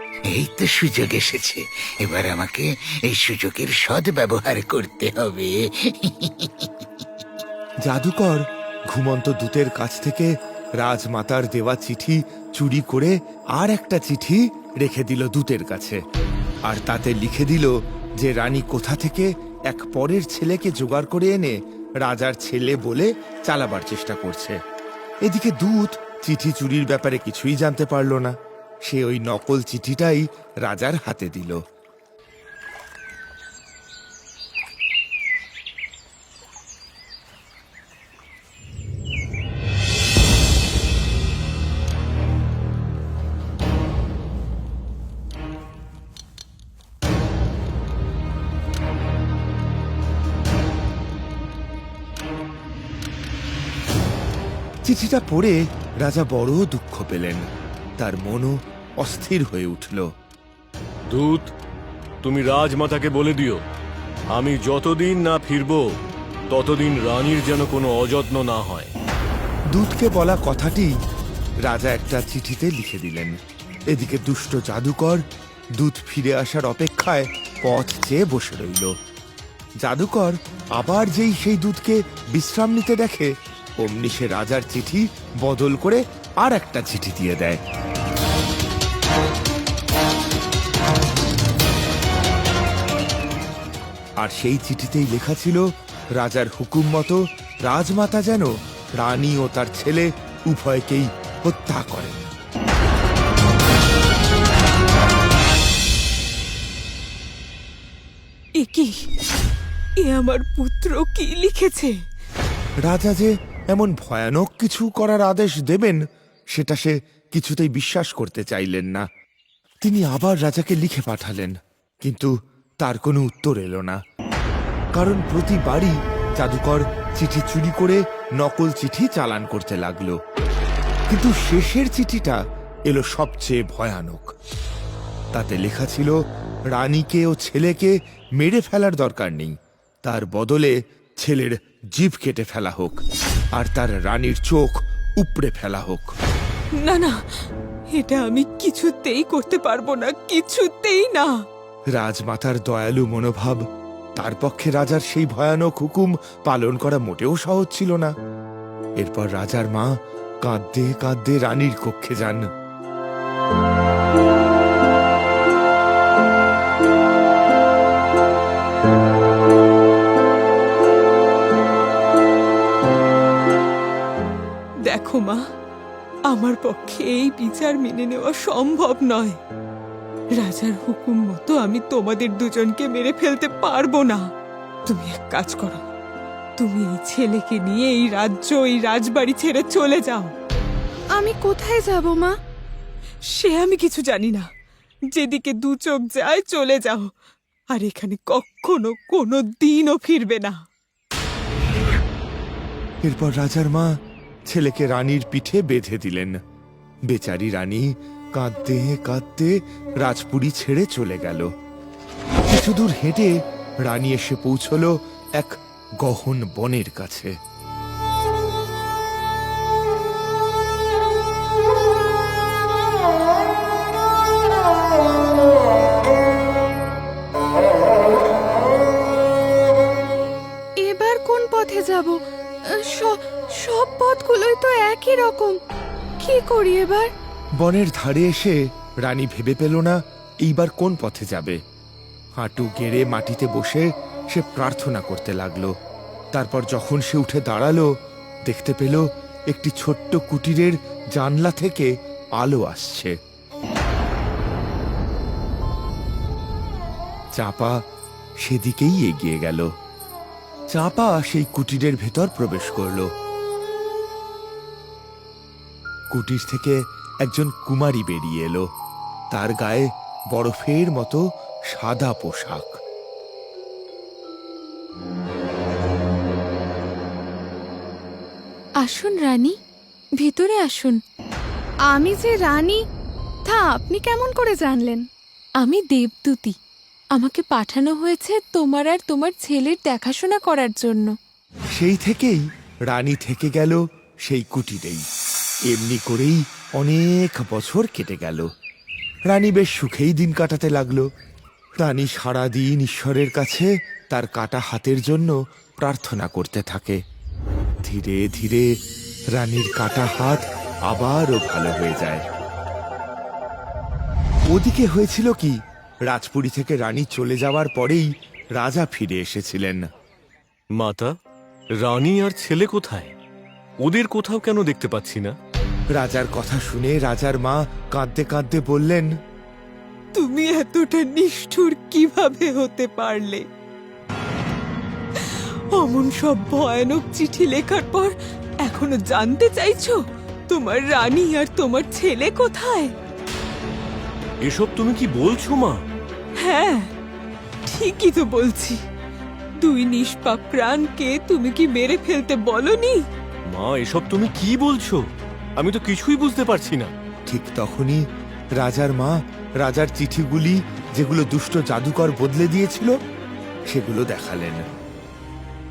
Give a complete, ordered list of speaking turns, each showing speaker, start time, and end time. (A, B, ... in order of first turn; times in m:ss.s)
0:00.3-0:06.7 A
0:07.8-0:16.0 B
0:16.6-0:24.6 B
0:25.2-0:31.6 B
0:54.8-0:57.4 B
0:58.0-1:00.1 B
1:01.1-1:01.5 C
1:02.2-1:03.6 C
1:04.3-1:05.8 C
1:06.5-1:08.9 C
1:09.7-1:10.9 B
1:11.6-1:13.3 B
1:13.9-1:15.2 B
1:15.8-1:18.9 B
1:19.8-1:27.6 B
1:34.2-1:42.3 B
1:48.6-1:49.0 D
1:50.0-1:51.9 D
1:52.8-1:56.0 B
1:56.5-1:59.0 B
1:59.8-2:02.3 B
2:02.8-2:04.0 B
2:04.9-2:10.2 B
2:11.1-2:14.3 B
2:15.3-2:16.2 B
2:16.7-2:19.5 B
2:20.0-2:23.0 B
2:23.6-2:26.1 B
2:26.8-2:27.1 D
2:27.9-2:31.3 D
2:31.9-2:33.6 B
2:34.2-2:38.1 B
2:39.0-2:42.4 B
2:54.8-2:55.4 D
2:56.3-2:59.4 D
3:00.4-3:04.2 D
3:04.9-3:05.8 D
3:06.6-3:10.3 D
3:11.1-3:12.3 E
3:13.3-3:14.5 D
3:15.1-3:17.1 D
3:17.7-3:20.6 D
3:23.0-3:23.9 B
3:24.5-3:26.3 B
3:27.1-3:31.5 B
3:32.4-3:37.3 B
3:50.8-3:52.2 E
3:52.7-3:55.5 E
3:56.2-3:57.1 E
3:57.6-4:01.6 B
4:02.4-4:05.7 B
4:06.3-4:07.9 B
4:08.4-4:13.1 B
4:17.4-4:17.8 B
4:18.4-4:19.7 B
4:20.7-4:23.1 B
4:26.1-4:28.6 B
4:29.3-4:32.7 B
4:38.8-4:39.5 F
4:40.2-4:41.0 F
4:41.9-4:42.8 E
4:43.4-4:45.0 E
4:45.6-4:46.6 F
4:47.2-4:51.1 F
4:51.7-4:55.0 B
4:55.7-4:58.5 B
4:59.2-5:01.1 B
5:01.8-5:07.0 B
5:07.8-5:08.7 B
5:09.3-5:12.2 B
5:14.5-5:15.5 B
5:16.0-5:19.8 B
5:20.7-5:21.1 C
5:21.8-5:23.1 C
5:23.8-5:25.3 C
5:25.9-5:29.1 B
5:30.1-5:33.4 D
5:35.1-5:42.9 D
5:44.4-5:45.8 C
5:46.4-5:46.9 D
5:47.6-5:48.8 D
5:49.6-5:53.0 D
5:53.5-5:55.0 C
5:55.6-5:56.9 C
5:57.3-5:58.0 B
5:58.6-6:02.9 B
6:03.7-6:04.6 B